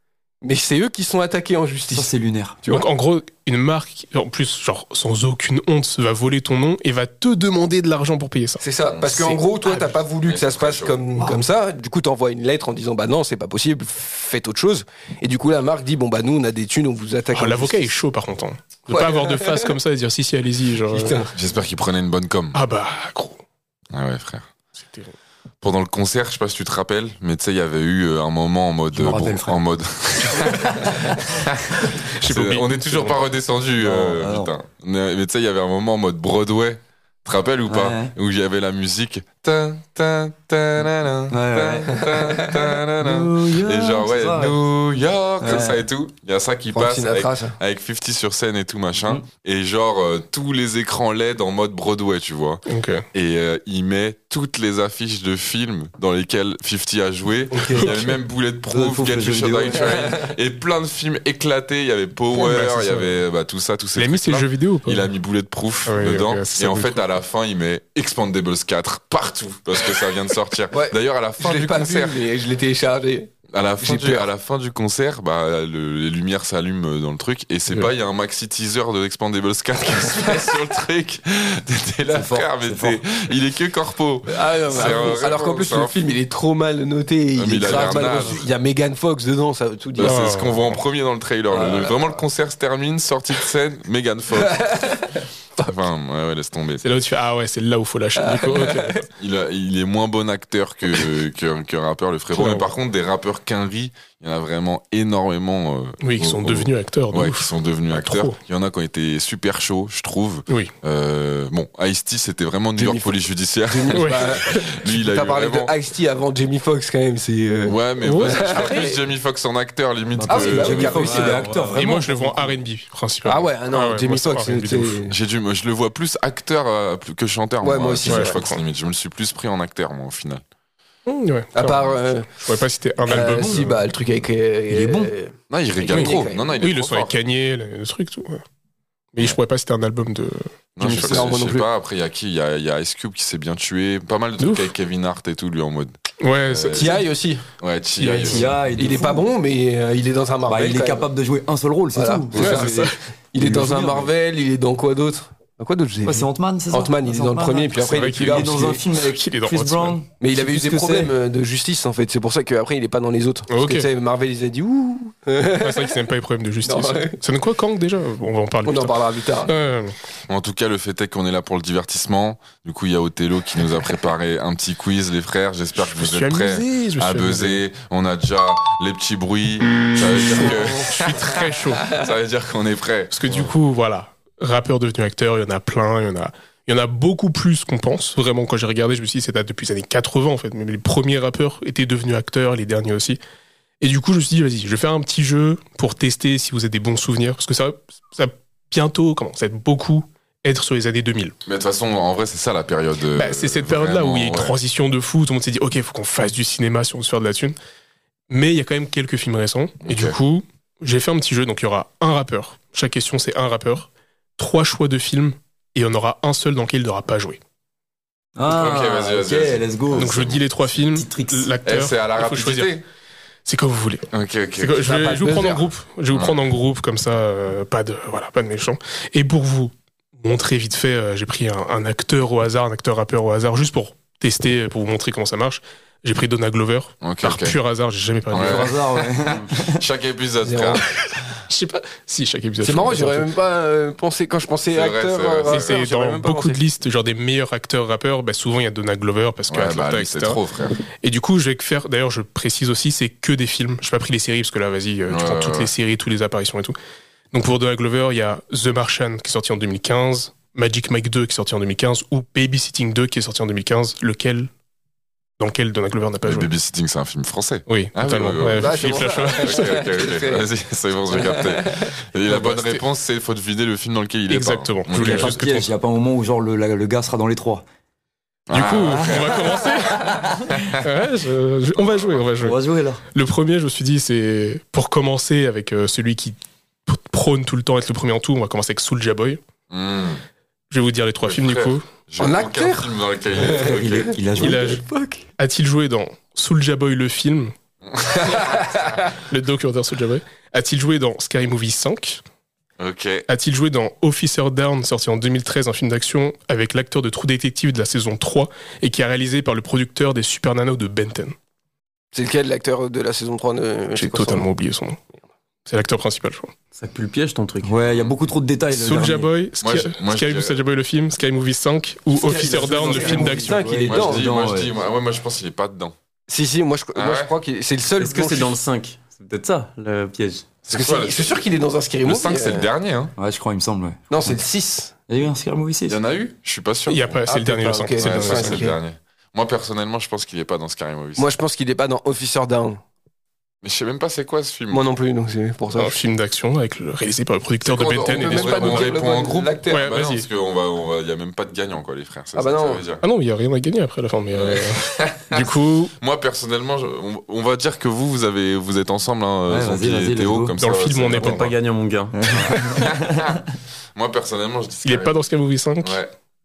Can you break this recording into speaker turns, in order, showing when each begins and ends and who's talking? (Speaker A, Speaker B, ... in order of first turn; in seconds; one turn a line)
Speaker A: 0.4-2.1
Speaker B: 1.9-2.6
Speaker C: 2.7-8.6
Speaker A: 8.6-17.9
Speaker D: 8.9-9.4
Speaker D: 10.2-11.0
Speaker C: 17.3-21.2
Speaker A: 18.9-19.7
Speaker A: 20.9-21.3
Speaker D: 21.3-22.6
Speaker C: 22.5-23.4
Speaker D: 23.9-24.5
Speaker D: 25.6-72.2
Speaker B: 28.9-29.6
Speaker C: 32.2-33.2
Speaker B: 33.8-34.5
Speaker B: 37.7-38.1
Speaker B: 41.3-42.1
Speaker B: 43.0-44.6
Speaker B: 45.4-45.8
Speaker A: 46.7-47.5
Speaker C: 52.7-53.0
Speaker A: 57.5-57.9
Speaker C: 57.8-58.1
Speaker B: 58.7-60.1
Speaker C: 62.3-63.2
Speaker C: 64.0-65.1
Speaker C: 65.8-67.0
Speaker A: 70.7-74.3
Speaker D: 73.5-86.0
Speaker B: 82.1-83.0
Speaker A: 84.3-90.2
Speaker D: 87.4-88.5
Speaker B: 87.7-88.0
Speaker D: 90.0-95.1
Speaker C: 90.0-90.8
Speaker A: 91.5-91.9
Speaker A: 94.5-95.7
Speaker D: 95.7-96.8
Speaker C: 96.8-99.0
Speaker A: 98.2-99.0
Speaker D: 99.2-115.7
Speaker C: 102.3-102.7
Speaker C: 106.0-108.4
Speaker A: 112.8-119.0
Speaker C: 114.0-114.7
Speaker D: 117.7-121.4
Speaker C: 118.0-118.8
Speaker B: 120.1-122.5
Speaker A: 120.3-121.8
Speaker E: 121.2-121.7
Speaker C: 121.8-125.0
Speaker A: 123.2-125.1
Speaker D: 125.1-130.4
Speaker A: 127.6-128.4
Speaker C: 128.1-128.6
Speaker C: 131.1-133.7
Speaker A: 131.5-132.3
Speaker B: 133.1-133.8
Speaker A: 133.1-135.3
Speaker B: 134.7-135.1
Speaker D: 135.5-137.1
Speaker C: 135.8-138.4
Speaker A: 135.8-136.5
Speaker C: 139.1-141.3
Speaker D: 140.8-145.9
Speaker A: 140.8-141.7
Speaker C: 144.4-144.7
Speaker C: 146.2-147.0
Speaker D: 146.5-147.0
Speaker A: 146.8-147.4
Speaker D: 147.6-148.5
Speaker C: 148.0-148.4
Speaker B: 148.1-149.2
Speaker A: 148.8-151.1
Speaker B: 150.5-154.1
Speaker A: 151.9-158.8
Speaker C: 152.3-152.9
Speaker B: 156.0-161.1
Speaker C: 157.9-160.0
Speaker A: 160.2-165.9
Speaker C: 163.5-163.9
Speaker C: 165.6-169.9
Speaker A: 166.6-167.2
Speaker A: 168.6-169.5
Speaker D: 170.3-183.4
Speaker C: 175.8-177.6
Speaker C: 180.0-182.0
Speaker C: 183.1-193.2
Speaker C: 193.8-201.3
Speaker D: 201.4-204.6
Speaker C: 203.1-207.5
Speaker C: 208.3-217.4
Speaker D: 209.8-210.2
Speaker B: 218.3-220.1
Speaker D: 218.5-220.4
Speaker C: 219.9-222.8
Speaker B: 220.9-221.5
Speaker D: 221.7-222.8
Speaker C: 223.4-238.7
Speaker D: 224.1-225.1
Speaker A: 224.9-225.6
Speaker D: 226.1-226.4
Speaker D: 237.0-237.6
Speaker D: 238.3-238.8
Speaker B: 238.3-239.8
Speaker D: 239.7-240.8
Speaker A: 240.4-240.8
Speaker C: 241.5-243.3
Speaker A: 242.6-246.6
Speaker D: 244.7-245.8
Speaker C: 245.5-250.4
Speaker D: 249.5-250.8
Speaker C: 251.0-256.8
Speaker D: 255.1-255.7
Speaker C: 257.3-264.5
Speaker C: 265.4-266.5
Speaker D: 266.2-275.4
Speaker C: 267.7-269.8
Speaker A: 268.6-270.5
Speaker A: 271.1-271.9
Speaker C: 272.3-272.8
Speaker C: 274.3-275.7
Speaker B: 274.9-277.6
Speaker D: 278.5-279.6
Speaker C: 278.5-282.6
Speaker B: 278.9-280.5
Speaker B: 282.4-283.0
Speaker C: 283.1-286.4
Speaker C: 286.9-289.4
Speaker D: 289.7-290.2
Speaker C: 290.7-291.8
Speaker D: 291.2-294.1
Speaker A: 292.2-295.2
Speaker B: 293.6-294.8
Speaker C: 294.4-294.8
Speaker C: 295.4-297.5
Speaker D: 297.8-298.9
Speaker C: 299.3-302.2
Speaker D: 302.8-303.2
Speaker C: 303.3-311.3
Speaker A: 312.1-314.4
Speaker C: 313.9-315.0
Speaker C: 315.7-316.5
Speaker E: 316.7-317.7
Speaker B: 317.6-319.3
Speaker D: 317.8-318.1
Speaker C: 318.7-323.7
Speaker D: 319.6-320.6
Speaker B: 322.1-324.8
Speaker A: 322.2-324.3
Speaker D: 323.9-325.9
Speaker A: 326.3-328.6
Speaker D: 326.9-327.3
Speaker E: 328.0-330.5
Speaker D: 330.6-331.4
Speaker A: 330.7-332.7
Speaker D: 332.0-333.1
Speaker B: 333.2-334.3
Speaker A: 334.1-334.9
Speaker B: 335.1-336.0
Speaker D: 335.9-337.2
Speaker C: 336.9-338.6
Speaker A: 337.3-338.8
Speaker D: 338.0-341.3
Speaker A: 341.2-342.8
Speaker D: 343.6-344.8
Speaker A: 344.7-345.9
Speaker C: 345.7-349.0
Speaker D: 347.6-353.0
Speaker A: 348.0-349.9
Speaker C: 349.7-350.2
Speaker A: 352.3-352.8
Speaker C: 353.0-355.9
Speaker D: 354.3-361.5
Speaker B: 359.5-360.5
Speaker C: 360.6-361.5
Speaker E: 361.1-362.3
Speaker B: 362.1-363.2
Speaker D: 362.3-365.2
Speaker C: 364.8-366.0
Speaker D: 365.8-366.1